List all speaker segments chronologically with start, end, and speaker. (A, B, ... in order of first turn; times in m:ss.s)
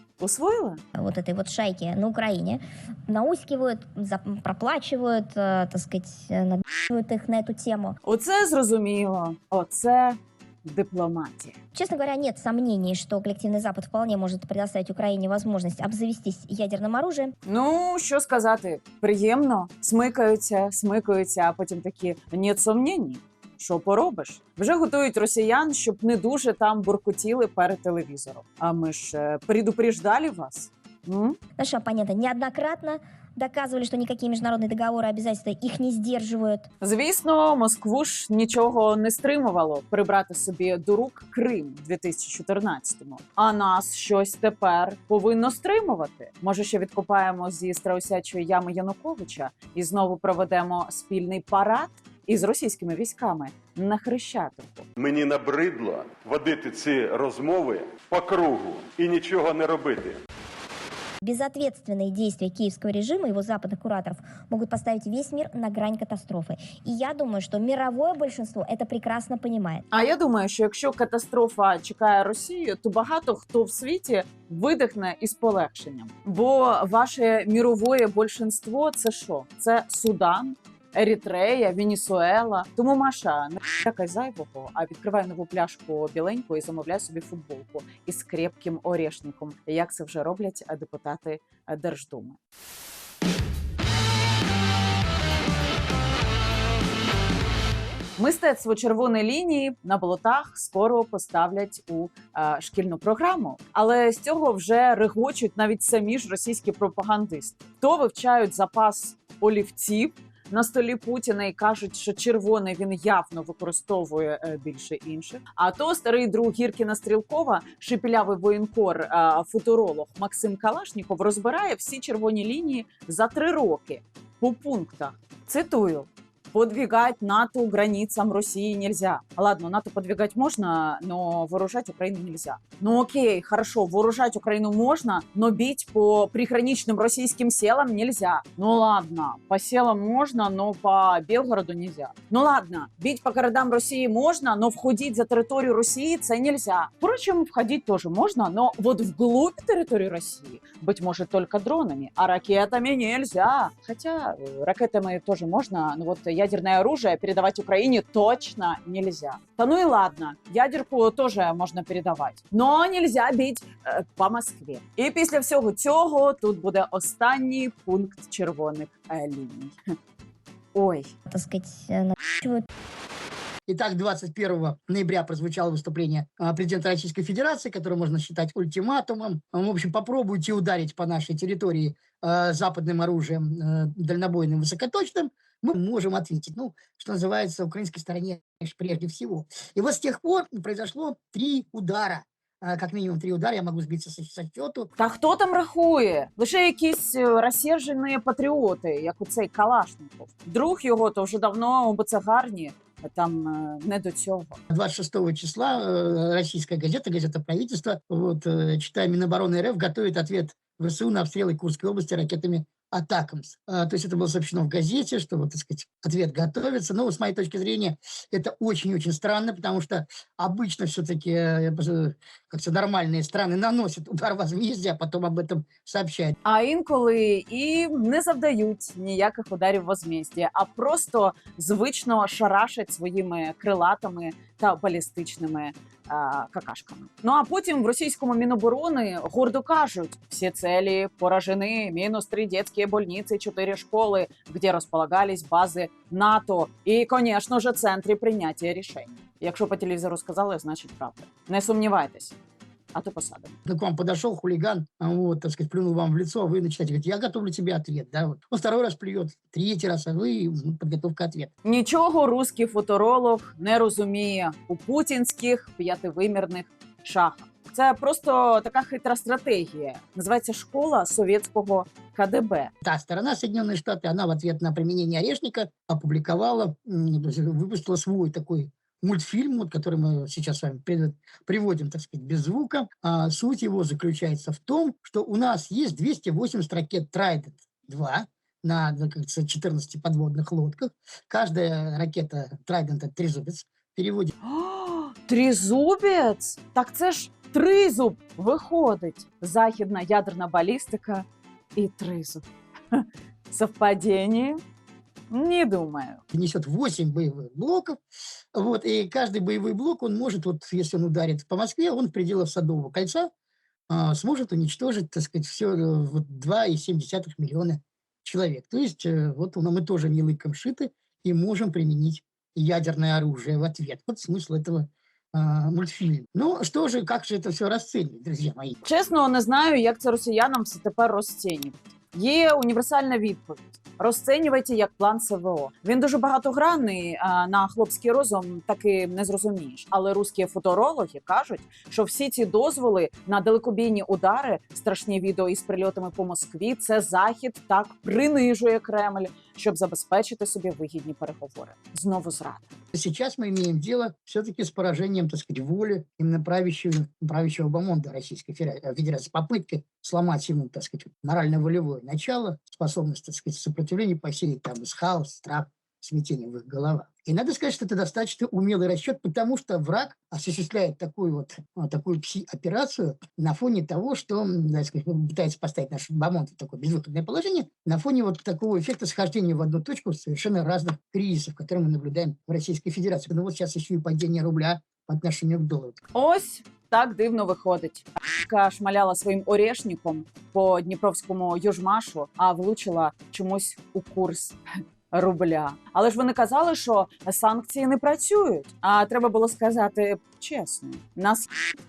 0:00.2-0:00.8 A
0:01.0-0:08.0 B
0:08.0-0:11.6 A
0:11.7-0:17.3 B
0:17.5-0:31.4 A
0:31.6-0:36.7 B
0:36.8-0:54.9 A
0:55.0-1:00.2 C
1:01.2-1:09.8 B
1:09.9-1:32.4 A
1:38.2-2:49.8 A
2:50.7-2:51.1 A
2:51.3-2:52.6 B
2:53.7-3:14.9 D
3:15.0-3:24.6 A
3:24.7-3:46.3 D
3:46.4-4:12.4 A
4:12.9-4:13.6 A
4:13.6-4:21.5 D
4:21.6-4:32.7 A
4:32.8-4:54.3 D
4:54.4-5:01.2 A
5:01.8-5:04.6 A
5:05.3-5:06.2 A
5:06.3-5:08.0 D
5:08.5-5:13.3 D
5:13.9-5:28.8 D
5:28.8-5:52.7 A
5:52.9-6:26.0 D
6:26.1-6:34.6 A
6:35.1-6:41.5 A